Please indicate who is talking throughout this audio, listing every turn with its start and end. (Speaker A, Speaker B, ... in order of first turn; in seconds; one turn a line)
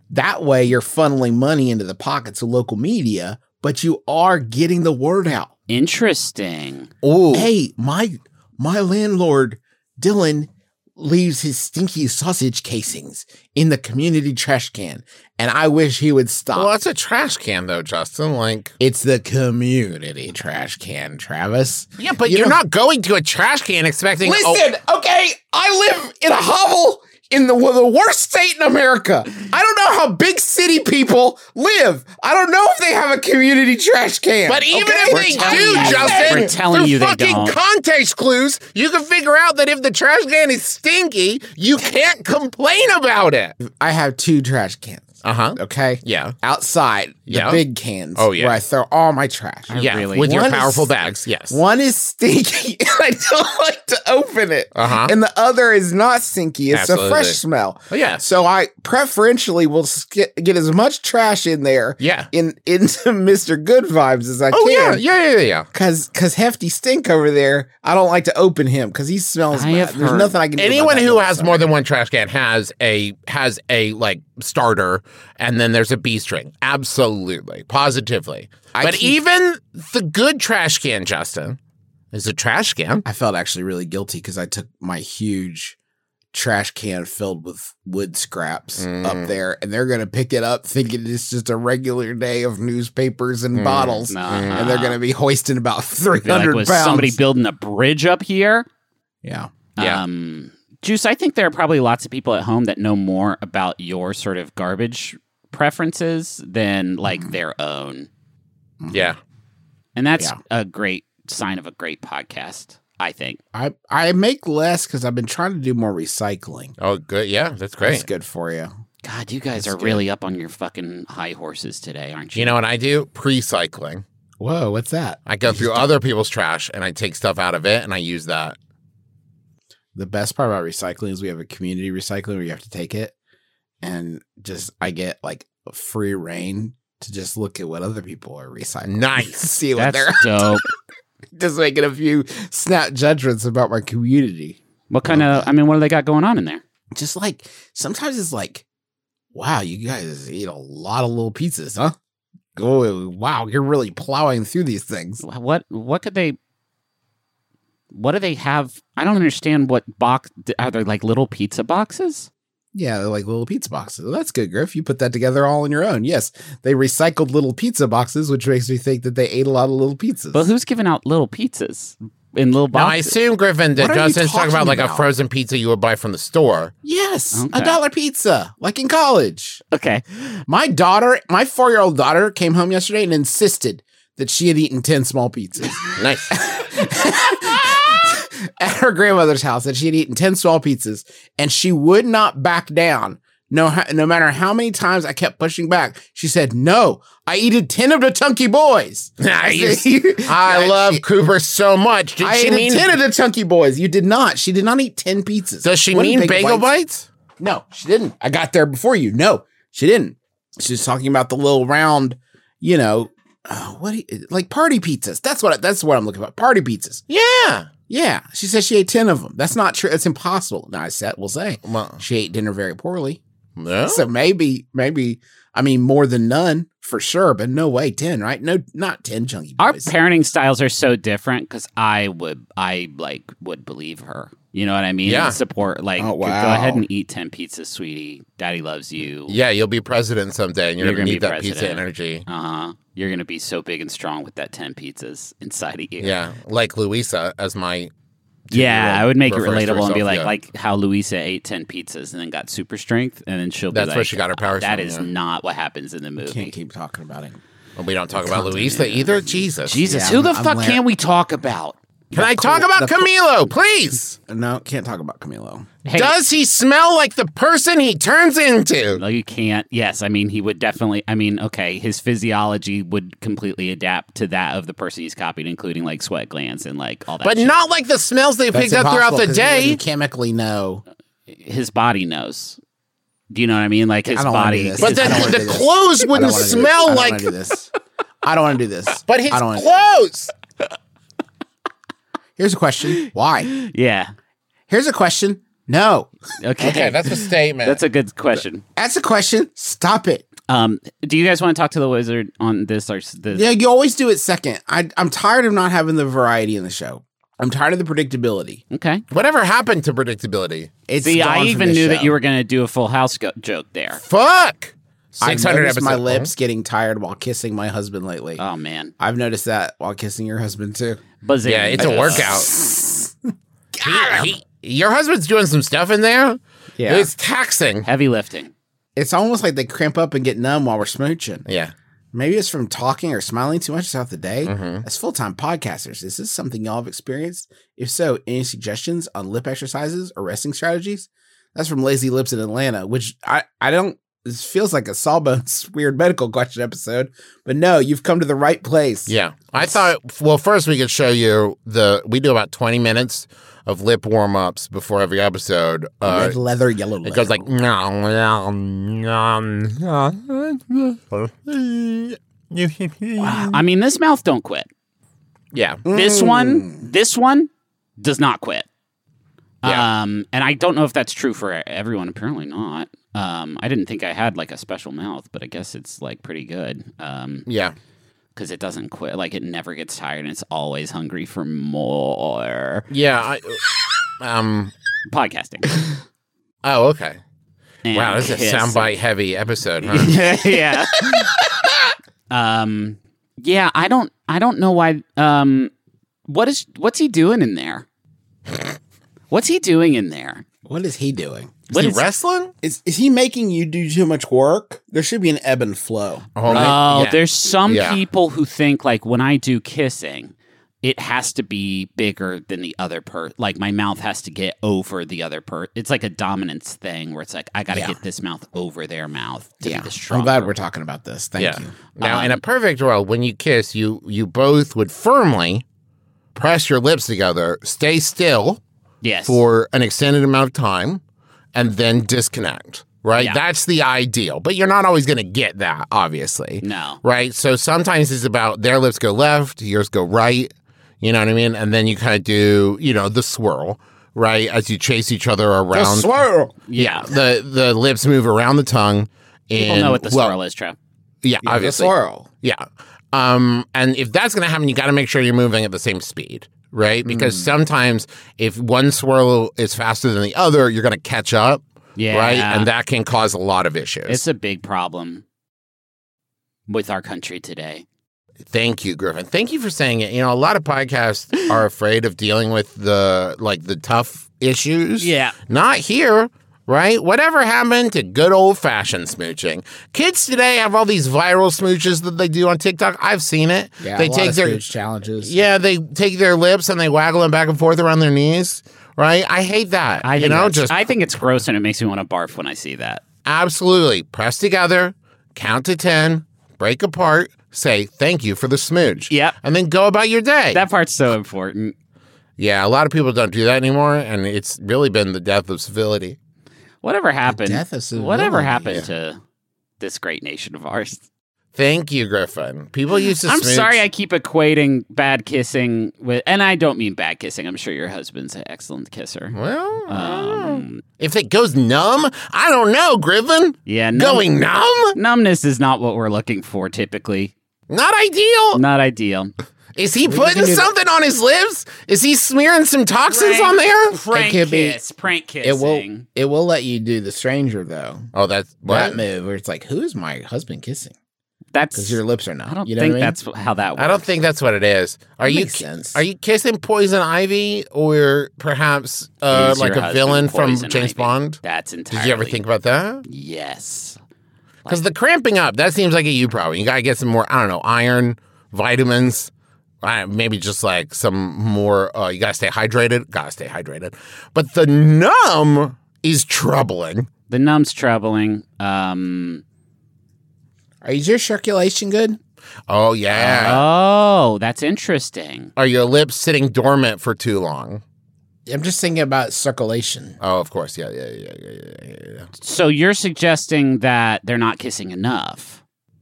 Speaker A: 0.1-5.5
Speaker B: 5.7-6.9
Speaker C: 7.0-7.5
Speaker A: 7.3-16.7
Speaker C: 16.5-18.7
Speaker A: 18.8-22.6
Speaker C: 22.0-24.6
Speaker A: 24.2-36.5
Speaker C: 34.5-43.5
Speaker B: 35.1-37.6
Speaker A: 43.6-50.9
Speaker C: 45.2-46.3
Speaker C: 47.3-47.6
Speaker C: 48.1-48.6
Speaker B: 49.7-50.7
Speaker C: 49.8-51.6
Speaker A: 51.5-65.0
Speaker C: 54.7-55.1
Speaker C: 56.7-57.4
Speaker C: 57.9-58.2
Speaker C: 62.0-62.3
Speaker C: 64.5-65.7
Speaker A: 65.7-71.7
Speaker B: 69.5-70.3
Speaker C: 70.5-81.6
Speaker A: 78.7-79.2
Speaker C: 82.1-83.0
Speaker A: 83.0-85.8
Speaker A: 86.3-97.2
Speaker C: 88.8-89.3
Speaker C: 93.5-94.7
Speaker B: 94.1-95.0
Speaker B: 96.2-98.7
Speaker A: 99.2-99.5
Speaker B: 99.8-108.1
Speaker A: 108.8-109.1
Speaker C: 108.9-109.2
Speaker B: 110.0-113.4
Speaker A: 113.5-116.7
Speaker C: 116.8-118.1
Speaker A: 117.8-118.8
Speaker B: 119.0-122.6
Speaker A: 119.6-120.0
Speaker C: 122.3-124.0
Speaker A: 124.4-125.9
Speaker C: 125.3-128.6
Speaker A: 129.9-133.1
Speaker A: 133.8-140.6
Speaker C: 138.8-139.6
Speaker B: 139.8-140.6
Speaker A: 141.3-145.4
Speaker B: 144.9-146.6
Speaker A: 146.9-148.6
Speaker A: 149.3-151.9
Speaker A: 152.6-155.2
Speaker B: 155.2-156.4
Speaker B: 157.9-162.3
Speaker A: 162.7-170.5
Speaker B: 170.3-173.1
Speaker C: 172.7-176.7
Speaker A: 173.8-175.1
Speaker A: 176.8-179.6
Speaker B: 177.3-177.8
Speaker B: 179.7-180.0
Speaker A: 180.5-201.0
Speaker C: 185.9-186.4
Speaker C: 199.2-202.9
Speaker A: 202.2-206.7
Speaker C: 205.6-207.1
Speaker A: 207.4-217.0
Speaker C: 217.1-217.7
Speaker A: 217.9-223.2
Speaker C: 221.6-222.0
Speaker C: 223.6-224.1
Speaker A: 223.9-229.9
Speaker B: 229.6-239.4
Speaker C: 235.1-235.4
Speaker A: 236.0-236.8
Speaker C: 239.3-242.2
Speaker B: 240.8-246.1
Speaker C: 246.0-247.9
Speaker C: 248.5-250.3
Speaker B: 248.5-256.5
Speaker C: 253.7-255.1
Speaker A: 256.2-257.4
Speaker C: 257.8-259.8
Speaker A: 258.2-258.7
Speaker B: 258.4-261.8
Speaker A: 259.8-260.8
Speaker A: 262.1-263.1
Speaker C: 262.1-264.2
Speaker A: 264.2-265.7
Speaker B: 265.8-266.1
Speaker C: 265.9-269.0
Speaker B: 268.9-277.5
Speaker C: 277.2-279.8
Speaker A: 278.5-280.8
Speaker B: 281.3-282.6
Speaker B: 283.3-285.4
Speaker A: 284.1-287.7
Speaker C: 284.8-287.3
Speaker A: 288.2-289.7
Speaker C: 289.1-290.3
Speaker A: 292.4-293.5
Speaker B: 293.5-294.1
Speaker A: 294.7-296.1
Speaker B: 296.4-297.1
Speaker C: 296.6-297.8
Speaker B: 297.6-298.6
Speaker A: 298.8-300.2
Speaker B: 300.5-303.5
Speaker A: 303.3-308.6
Speaker B: 308.7-309.0
Speaker C: 309.1-310.7
Speaker A: 310.9-312.2
Speaker B: 311.0-314.0
Speaker C: 314.0-316.3
Speaker A: 315.2-318.4
Speaker B: 318.4-318.9
Speaker A: 319.0-321.0
Speaker B: 321.2-322.4
Speaker C: 321.4-322.5
Speaker A: 321.8-323.1
Speaker A: 323.7-324.3
Speaker C: 323.8-327.9
Speaker A: 326.8-327.1
Speaker B: 327.8-328.5
Speaker A: 328.9-331.4
Speaker C: 331.4-331.7
Speaker A: 332.1-349.7
Speaker C: 334.4-334.8
Speaker C: 349.1-356.4
Speaker A: 356.0-357.4
Speaker C: 357.0-363.6
Speaker B: 363.2-364.7
Speaker C: 365.5-365.8
Speaker A: 365.9-366.8
Speaker B: 365.9-368.6
Speaker B: 369.6-377.4
Speaker C: 377.4-377.7
Speaker B: 378.4-382.9
Speaker C: 382.9-383.6
Speaker C: 384.2-384.7
Speaker B: 385.1-385.8
Speaker C: 386.6-387.2
Speaker B: 387.8-389.0
Speaker C: 387.9-390.2
Speaker B: 389.8-391.3
Speaker B: 392.3-395.7
Speaker B: 396.3-397.9
Speaker B: 399.3-400.4
Speaker A: 400.6-401.6
Speaker B: 401.7-402.0
Speaker C: 401.7-402.5
Speaker A: 402.6-406.8
Speaker C: 406.4-408.0
Speaker B: 406.5-420.5
Speaker A: 419.6-421.7
Speaker C: 421.4-425.6
Speaker B: 422.0-422.4
Speaker C: 426.3-428.6
Speaker B: 429.0-429.4
Speaker C: 429.3-431.0
Speaker C: 431.5-446.1
Speaker B: 436.6-437.0
Speaker A: 445.7-446.6
Speaker B: 446.7-447.1
Speaker C: 446.8-450.4
Speaker B: 449.6-450.8
Speaker C: 451.2-464.2
Speaker A: 451.4-452.3
Speaker A: 457.0-457.5
Speaker B: 462.0-462.7
Speaker B: 464.1-465.2
Speaker B: 466.7-467.8
Speaker C: 468.5-484.6
Speaker B: 475.0-475.4
Speaker A: 483.8-485.4
Speaker C: 485.2-490.9
Speaker B: 490.0-493.0
Speaker C: 493.2-500.6
Speaker B: 499.1-499.4
Speaker B: 500.5-501.7
Speaker C: 502.4-506.2
Speaker B: 506.8-509.2
Speaker A: 507.2-508.8
Speaker B: 509.8-511.0
Speaker C: 511.5-513.8
Speaker B: 513.0-520.8
Speaker C: 519.3-525.0
Speaker B: 523.7-524.3
Speaker B: 524.9-527.3
Speaker C: 527.7-528.6
Speaker B: 528.5-529.3
Speaker C: 529.8-534.0
Speaker A: 530.0-530.7
Speaker B: 533.1-536.0
Speaker A: 534.1-534.8
Speaker A: 535.4-538.1
Speaker C: 538.1-539.0
Speaker A: 538.6-540.9
Speaker B: 541.5-544.0
Speaker A: 541.7-543.2
Speaker C: 543.8-553.0
Speaker A: 545.2-546.0
Speaker B: 549.3-552.4
Speaker B: 553.1-554.0
Speaker C: 554.7-559.3
Speaker C: 559.8-567.1
Speaker B: 567.3-569.4
Speaker A: 570.8-572.2
Speaker C: 572.7-573.6
Speaker B: 573.1-575.5
Speaker C: 575.6-577.8
Speaker A: 578.5-580.2
Speaker C: 580.2-582.3
Speaker B: 582.4-585.6